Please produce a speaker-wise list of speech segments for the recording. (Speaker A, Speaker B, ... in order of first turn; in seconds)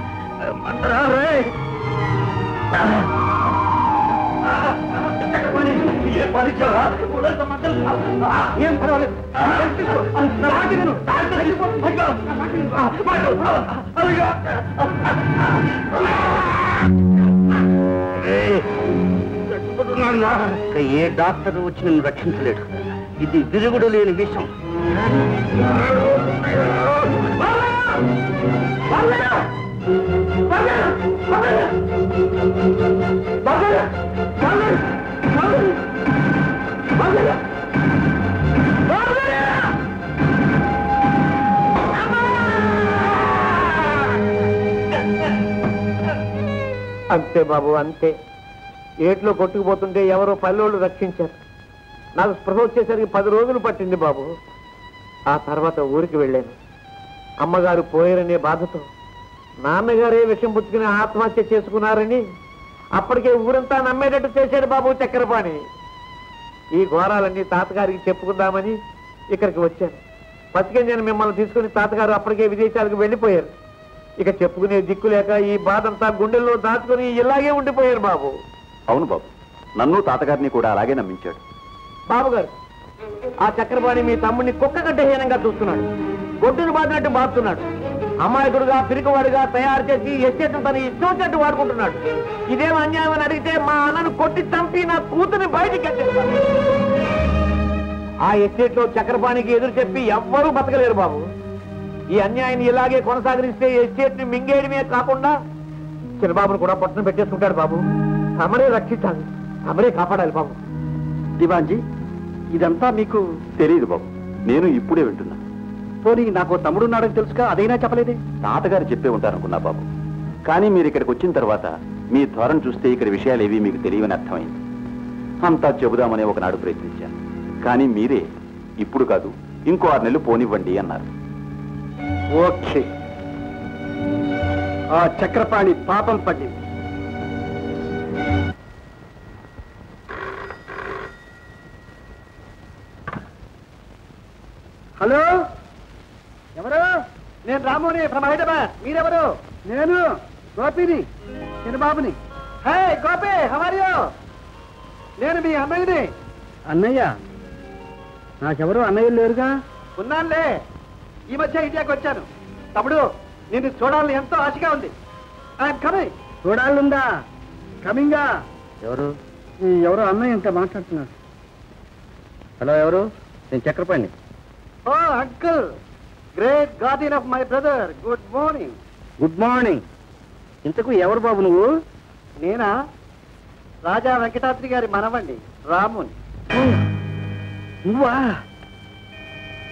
Speaker A: 0.5-1.4, 5.9-7.6, 20.7-24.5, 158.6-159.5, 166.5-166.8, 168.8-169.1, 172.6-174.1, 179.2-179.8, 180.6-181.7, 187.8-188.2
Speaker B: 8.6-11.9, 111.4-111.8, 112.5-113.2, 116.0-118.2, 132.3-132.9, 135.0-136.6, 145.0-145.3, 147.4-150.1, 150.6-151.0, 151.7-154.1, 155.2-156.1, 160.0-160.5, 161.3-164.9, 165.6-166.1, 167.9-168.2, 174.9-175.7, 176.3-178.8, 182.4-182.7, 183.8-186.2
Speaker C: 47.1-48.1, 49.0-51.4, 52.2-54.3, 55.3-56.5, 57.4-58.9, 59.6-62.2, 63.0-65.6, 66.8-68.8, 69.3-70.0, 70.5-73.5, 74.2-78.3, 82.1-82.5, 83.4-85.9, 86.4-87.7, 88.2-96.4, 98.2-101.2, 102.2-105.3, 106.2-107.9, 108.4-110.6
Speaker D: 78.9-81.4, 113.6-115.4, 118.4-119.9, 120.5-124.6, 125.4-128.3, 128.8-131.1